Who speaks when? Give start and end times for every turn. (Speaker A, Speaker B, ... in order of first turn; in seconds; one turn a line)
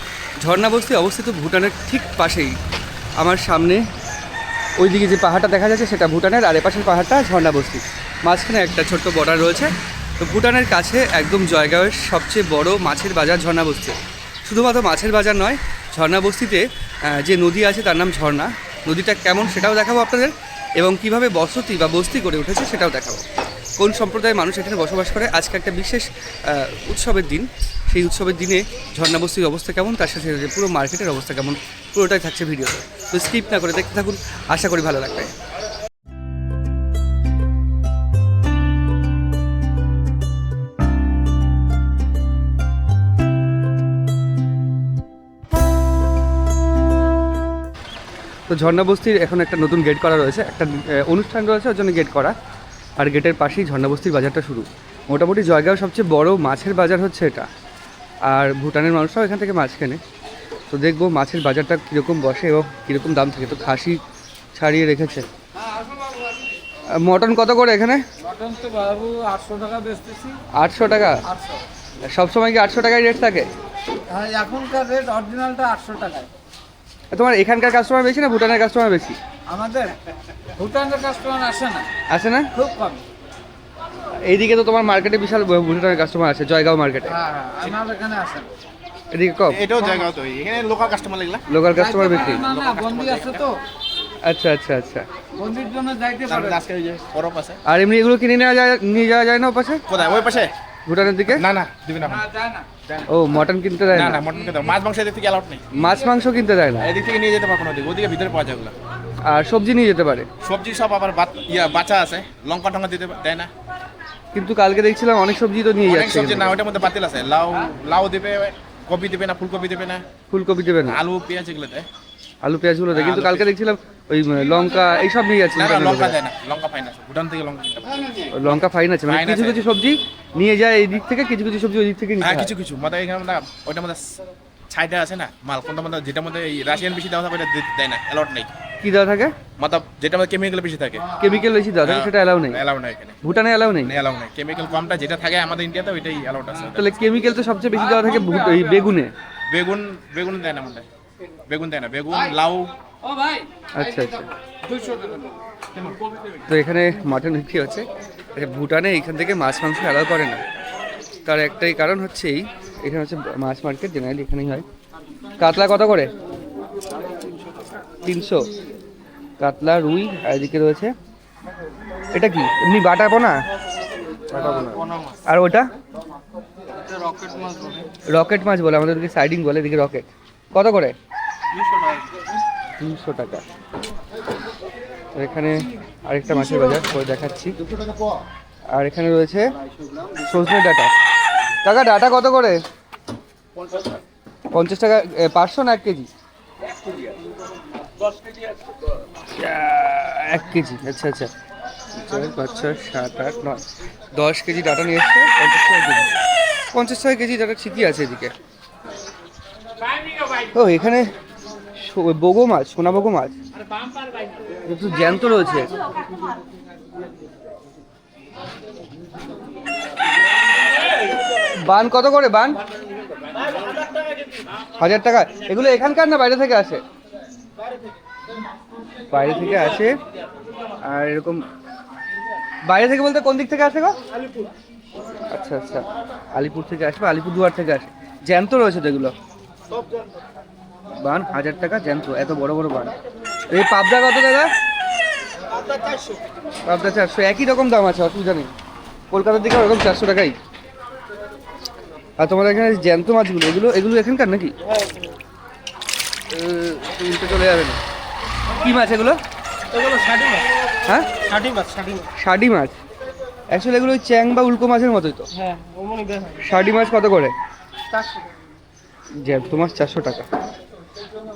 Speaker A: 0.4-2.5
Speaker A: 3.2-3.8
Speaker A: 4.8-23.2
Speaker A: 23.8-35.3
Speaker A: 48.5-52.3
Speaker A: 53.0-57.5
Speaker A: 58.3-60.0
Speaker A: 60.7-64.0
Speaker A: 64.5-65.3
Speaker A: 67.0-68.0
Speaker B: 68.2-70.4
Speaker A: 70.5-71.2
Speaker B: 71.2-71.6
Speaker A: 72.1-73.5
Speaker B: 74.1-76.3
Speaker A: 77.1-79.2
Speaker B: 79.5-80.0
Speaker B: 80.6-81.9
Speaker A: 82.1-82.5
Speaker B: 82.5-83.0
Speaker A: 84.2-87.2
Speaker B: 87.1-88.5
Speaker A: 89.1-89.6
Speaker C: 89.5-91.5
Speaker B: 89.8-90.0
Speaker A: 91.5-92.5
Speaker B: 91.7-93.6
Speaker C: 92.2-93.4
Speaker A: 94.2-95.0
Speaker B: 95.4-96.6
Speaker C: 96.3-97.6
Speaker A: 97.6-99.8
Speaker C: 99.9-100.5
Speaker A: 100.9-101.4
Speaker C: 101.3-102.2
Speaker B: 102.2-102.7
Speaker A: 103.1-104.2
Speaker C: 103.9-105.7
Speaker A: 105.7-106.9
Speaker C: 106.8-108.7
Speaker A: 109.2-110.3
Speaker C: 110.4-113.5
Speaker A: 114.3-116.5
Speaker C: 115.9-120.0
Speaker A: 120.3-121.0
Speaker C: 120.8-121.8
Speaker A: 122.4-126.2
Speaker C: 122.9-123.5
Speaker C: 125.5-127.9
Speaker A: 128.3-132.5
Speaker C: 128.5-129.6
Speaker C: 132.2-134.1
Speaker C: 134.7-138.5
Speaker A: 138.8-139.3
Speaker C: 139.6-141.1
Speaker A: 141.2-142.6
Speaker C: 141.8-143.2
Speaker A: 143.2-143.9
Speaker C: 143.8-146.8
Speaker A: 146.7-149.1
Speaker C: 149.5-150.8
Speaker C: 151.5-152.7
Speaker A: 153.8-154.3
Speaker B: 154.6-155.2
Speaker A: 156.5-160.4
Speaker A: 161.2-164.7
Speaker A: 165.4-166.1
Speaker A: 168.0-168.5
Speaker A: 169.4-170.9
Speaker A: 172.1-173.4
Speaker B: 174.3-175.2
Speaker A: 175.2-175.7
Speaker B: 176.8-177.9
Speaker A: 178.1-180.9
Speaker B: 181.5-182.0
Speaker A: 182.8-183.4
Speaker A: 185.1-187.6
Speaker A: 188.7-189.5
Speaker A: 190.2-190.9
Speaker A: 191.6-192.6
Speaker A: 194.5-196.1
Speaker A: 199.3-201.3
Speaker A: 202.0-203.6
Speaker A: 204.1-206.1
Speaker A: 206.7-208.3
Speaker A: 210.5-211.1
Speaker A: 211.8-213.4
Speaker A: 214.7-215.7
Speaker A: 221.6-222.6
Speaker A: 224.8-226.8
Speaker A: 229.1-230.0
Speaker A: 230.8-231.4
Speaker A: 232.7-234.0
Speaker A: 235.3-239.1
Speaker A: 241.0-242.9
Speaker A: 243.5-244.5
Speaker A: 246.7-248.5
Speaker A: 249.1-250.4
Speaker A: 252.2-254.5
Speaker A: 256.3-257.8
Speaker A: 258.6-259.2
Speaker B: 259.7-260.4
Speaker B: 261.3-262.1
Speaker A: 262.2-262.8
Speaker A: 263.5-265.3
Speaker B: 265.4-266.4
Speaker A: 266.4-267.3
Speaker A: 269.2-270.3